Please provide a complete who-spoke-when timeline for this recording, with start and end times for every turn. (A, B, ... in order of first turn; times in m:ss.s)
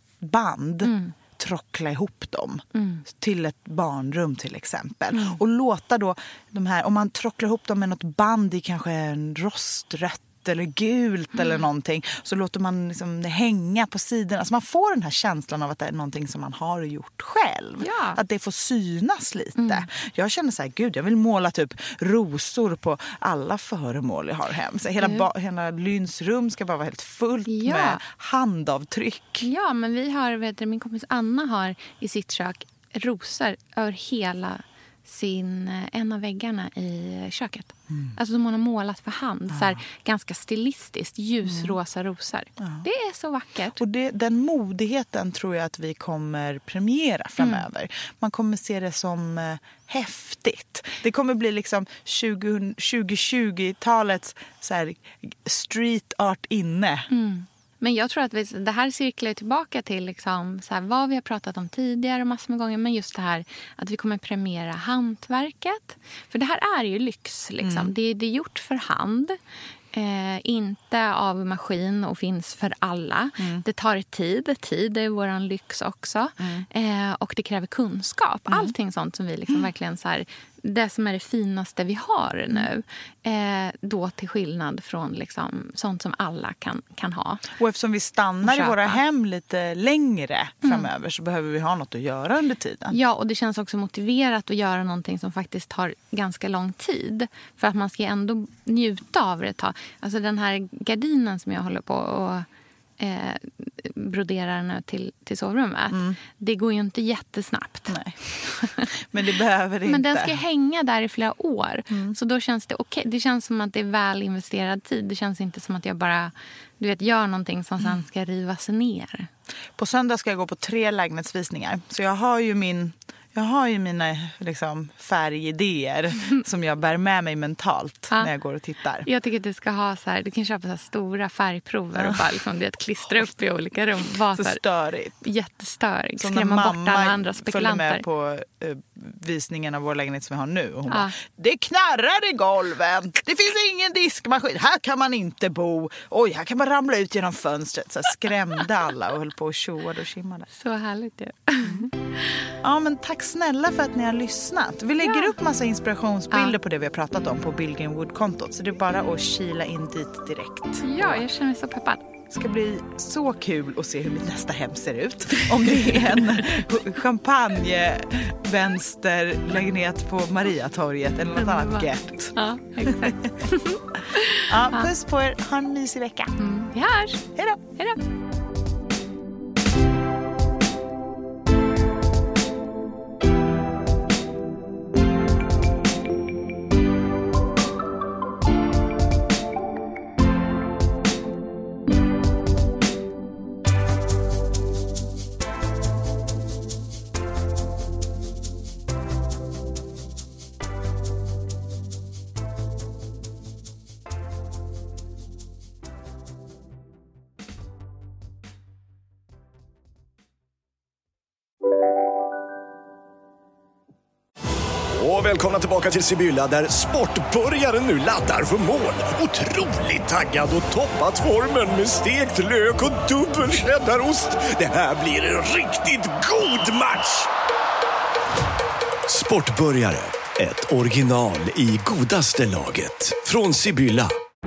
0:00.2-0:29.5 A
0:00.8-0:01.1 B
0:02.7-0:03.0 B
0:05.1-0:05.4 B
0:17.8-0:18.2 B
0:19.6-0:19.9 B
0:25.0-0:25.2 B
0:27.5-0:28.0 B
0:29.4-0:43.8 B
0:39.5-0:39.8 A
0:41.4-0:41.7 A
0:42.6-0:42.8 A
0:43.8-0:57.1 A
0:47.4-0:47.6 B
0:57.1-1:09.4 B
1:07.6-1:07.9 A
1:09.9-1:27.5 B
1:16.4-1:16.6 A
1:27.5-1:33.0 A
1:28.4-1:29.0 B
1:32.9-1:42.5 B
1:43.0-1:48.9 B
1:45.9-1:46.2 A
1:47.9-1:50.4 A
1:49.8-1:59.3 B
1:51.9-1:52.2 A
1:59.8-2:09.1 A
2:09.0-2:14.6 B
2:14.3-2:15.2 A
2:15.2-2:18.0 B
2:16.2-2:30.5 A
2:20.9-2:21.2 B
2:30.5-2:32.5 B
2:31.6-2:31.9 A
2:32.6-2:41.2 A
2:35.0-2:35.4 B
2:40.8-2:42.0 B
2:42.3-2:53.3 A
2:46.1-2:46.7 B
2:51.4-2:54.9 B
2:54.4-2:56.4 A
2:56.4-2:58.0 B
2:57.4-2:57.6 A
3:34.9-3:47.3 C
3:49.1-3:54.1 C